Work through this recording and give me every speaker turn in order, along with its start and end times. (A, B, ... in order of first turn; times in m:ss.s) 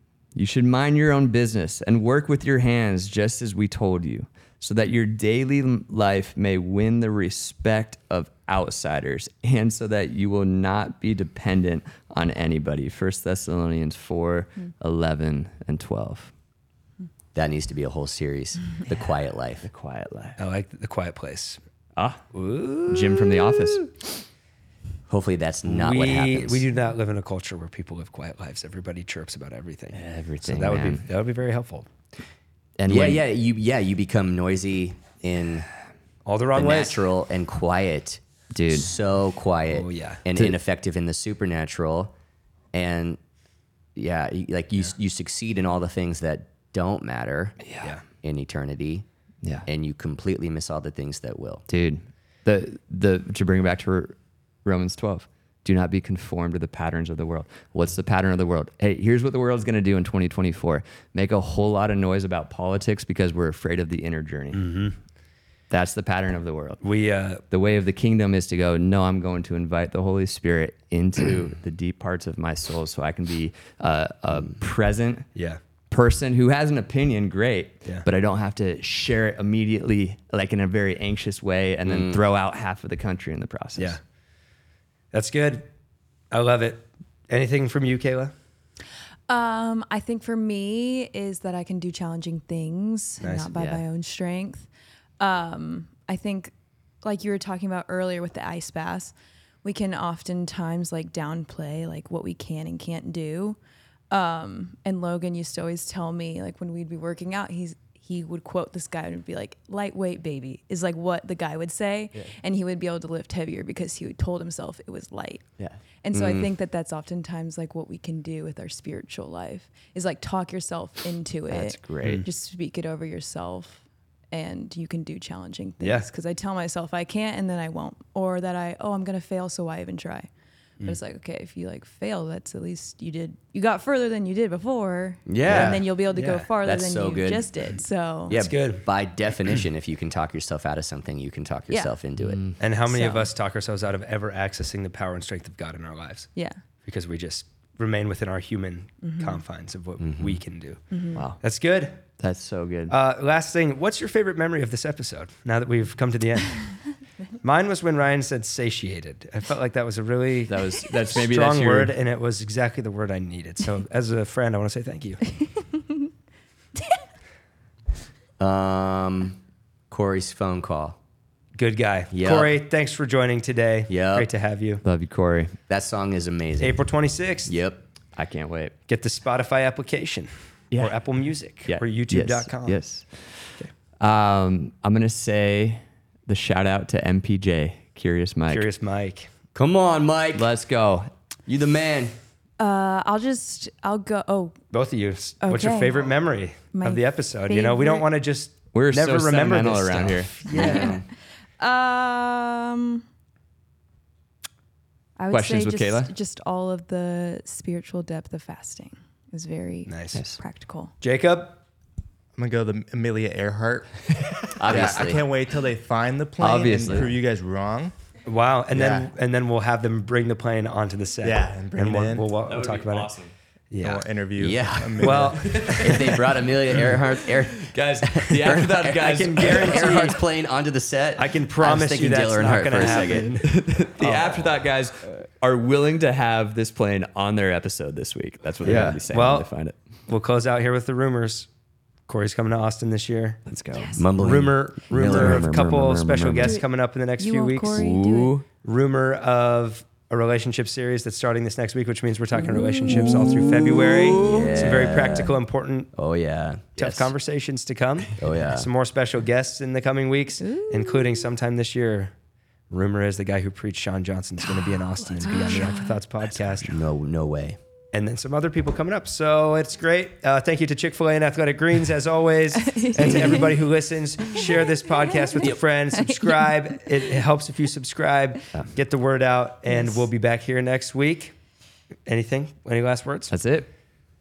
0:00.3-0:16.3 A
0:17.3-0:19.7 B
0:19.6-0:20.4 A
0:20.4-0:21.6 C
0:22.0-0:22.2 A
0:22.3-0:23.5 C
0:22.9-0:23.9 A
0:25.1-0:26.7 B
0:25.6-0:31.9 C
0:29.9-0:31.0 A
0:32.8-0:33.2 A
0:32.9-0:35.7 B
0:36.2-0:37.0 C
0:36.5-0:42.1 B
0:38.5-0:38.9 A
0:39.7-0:40.2 C
0:42.7-0:43.2 B
0:44.0-0:47.6 B
0:47.6-0:47.9 A
0:48.1-0:49.0 B
0:49.6-0:51.6 B
0:51.7-1:04.7 A
1:04.5-1:05.0 C
1:05.7-1:06.8 A
1:06.8-1:07.4 C
1:07.5-1:15.3 A
1:15.3-1:15.6 C
1:15.9-1:24.0 A
1:21.8-1:22.2 B
1:25.1-1:25.6 C
1:26.3-1:28.3 C
1:29.3-1:34.7 D
1:33.2-1:33.5 C
1:33.6-1:33.8 A
1:35.2-1:43.6 D
1:44.1-1:55.4 D
1:56.0-2:10.3 D
1:56.1-1:56.5 B
2:01.5-2:02.2 A
2:05.8-2:06.1 C
2:10.8-2:18.4 D
2:15.2-2:15.9 B
2:15.5-2:16.5 C
2:16.6-2:17.5 B
2:18.3-2:22.4 B
2:18.3-2:18.9 C
2:22.2-2:22.6 A
2:22.6-2:26.3 C
2:22.9-2:23.3 D
2:26.8-2:30.8 C
2:29.0-2:29.4 D
2:30.0-2:30.4 B
2:30.9-2:31.2 D
2:31.1-2:31.4 A
2:31.4-2:32.0 C
2:32.2-2:33.0 A
2:32.9-2:36.6 C
2:37.4-2:45.4 C
2:40.5-2:41.9 A
2:48.4-2:49.4 B
2:49.9-2:51.0 B
2:51.5-2:54.8 C
2:52.1-2:52.5 B
2:53.9-2:54.3 B
2:54.8-2:55.6 A
2:55.7-2:56.8 B
2:56.6-2:57.5 C
2:57.5-2:57.8 B
2:58.2-2:58.7 A
2:58.9-3:02.8 C
3:01.6-3:08.7 A
3:08.5-3:09.3 C
3:09.5-3:10.5 B
3:10.3-3:11.1 A
3:11.5-3:12.1 B
3:12.6-3:14.5 D
3:14.7-3:20.9 C
3:15.4-3:16.1 D
3:16.7-3:18.0 D
3:18.7-3:20.6 A
3:20.5-3:21.0 D
3:20.5-3:21.0 B
3:21.6-3:23.0 D
3:25.2-3:30.9 D
3:25.3-3:26.1 A
3:29.9-3:30.2 C
3:30.1-3:30.4 A
3:31.0-3:31.6 C
3:32.4-3:37.9 E
3:34.6-3:35.2 B
3:34.6-3:35.1 A
3:36.4-3:37.1 A
3:38.2-3:43.1 C
3:38.7-3:39.1 B
3:41.2-3:42.3 E
3:42.4-3:43.3 A
3:43.7-3:44.0 C
3:43.8-3:45.6 E
3:44.4-3:53.4 B
3:45.0-3:46.1 C
3:45.3-3:50.1 A
3:49.0-3:50.2 C
3:51.2-3:54.5 C
3:53.0-3:59.7 A
3:58.6-3:59.0 B
3:58.7-3:59.5 C
4:00.1-4:01.5 C
4:02.1-4:03.4 C
4:03.5-4:03.9 A
4:03.7-4:04.0 D
4:03.9-4:05.6 B
4:04.2-4:07.8 C
4:04.9-4:06.6 A
4:07.2-4:08.4 D
4:07.7-4:08.4 A
4:08.6-4:15.9 C
4:12.6-4:13.9 D
4:12.9-4:14.1 A
4:14.2-4:15.4 B
4:15.9-4:17.0 B
4:16.8-4:22.1 C
4:18.2-4:18.7 B
4:20.4-4:21.0 D
4:22.7-4:26.8 C
4:25.2-4:26.0 D
4:26.7-4:27.6 B
4:27.9-4:41.3 C
4:32.6-4:33.5 D
4:35.0-4:36.6 D
4:39.7-4:40.0 D
4:42.0-4:43.3 C
4:43.3-4:43.7 A